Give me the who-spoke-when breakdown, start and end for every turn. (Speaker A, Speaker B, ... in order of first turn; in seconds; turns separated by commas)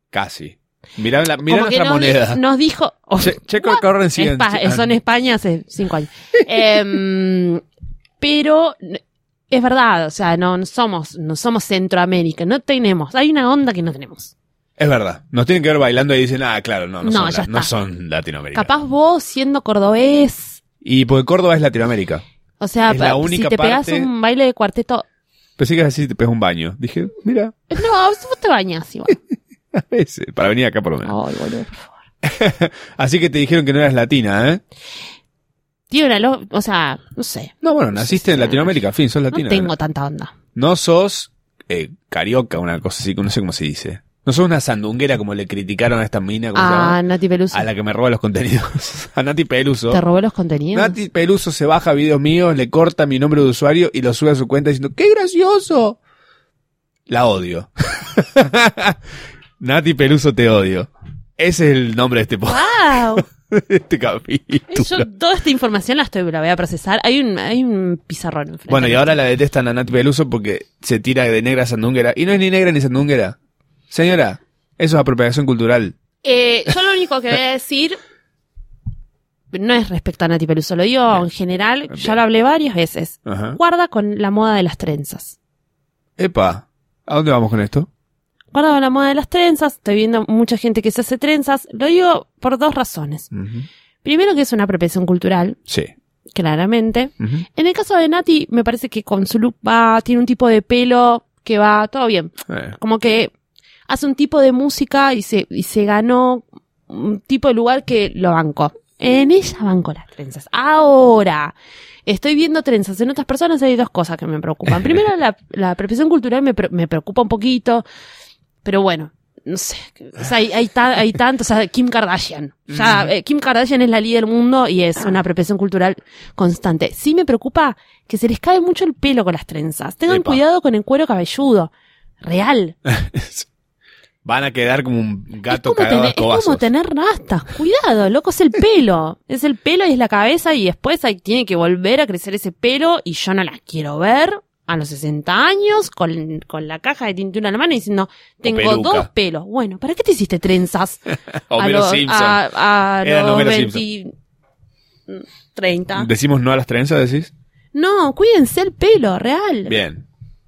Speaker A: 0.1-2.4, Speaker B: 1.4-7.6, Speaker A: 3.2-5.0, Speaker B: 8.2-14.3, Speaker A: 14.8-18.7, Speaker B: 17.0-17.7, Speaker B: 18.5-20.6, Speaker A: 20.8-22.2, Speaker B: 22.6-25.0, Speaker A: 22.9-24.1, Speaker A: 25.6-27.7, Speaker B: 27.7-29.2, Speaker A: 29.7-31.1, Speaker B: 31.0-32.0, Speaker A: 32.2-34.6, Speaker B: 35.9-38.8, Speaker A: 37.6-39.7, Speaker B: 39.3-40.3, Speaker A: 40.5-47.0, Speaker B: 46.5-47.7, Speaker A: 47.5-50.0, Speaker B: 49.9-51.0, Speaker A: 50.7-56.0, Speaker A: 57.1-59.0, Speaker A: 59.6-65.0, Speaker B: 62.5-63.3, Speaker B: 64.7-69.2, Speaker A: 68.7-73.3, Speaker A: 73.9-76.0, Speaker B: 76.2-78.0, Speaker B: 79.5-85.3, Speaker A: 83.2-83.6, Speaker A: 86.2-87.9, Speaker B: 88.5-93.3, Speaker A: 93.3-93.7, Speaker B: 94.0-95.6, Speaker B: 96.3-103.3, Speaker A: 97.2-97.4, Speaker A: 102.5-102.7, Speaker B: 103.9-111.5, Speaker B: 112.0-117.8, Speaker B: 118.6-131.7, Speaker A: 122.7-123.1, Speaker A: 130.1-130.4, Speaker B: 132.2-132.8, Speaker A: 132.8-133.5, Speaker A: 134.2-136.7, Speaker B: 135.5-151.0, Speaker A: 148.4-149.1, Speaker A: 151.5-152.4, Speaker B: 151.5-154.1, Speaker A: 153.0-153.8, Speaker B: 155.1-156.1, Speaker A: 155.9-157.3, Speaker B: 157.7-159.8, Speaker A: 159.7-160.0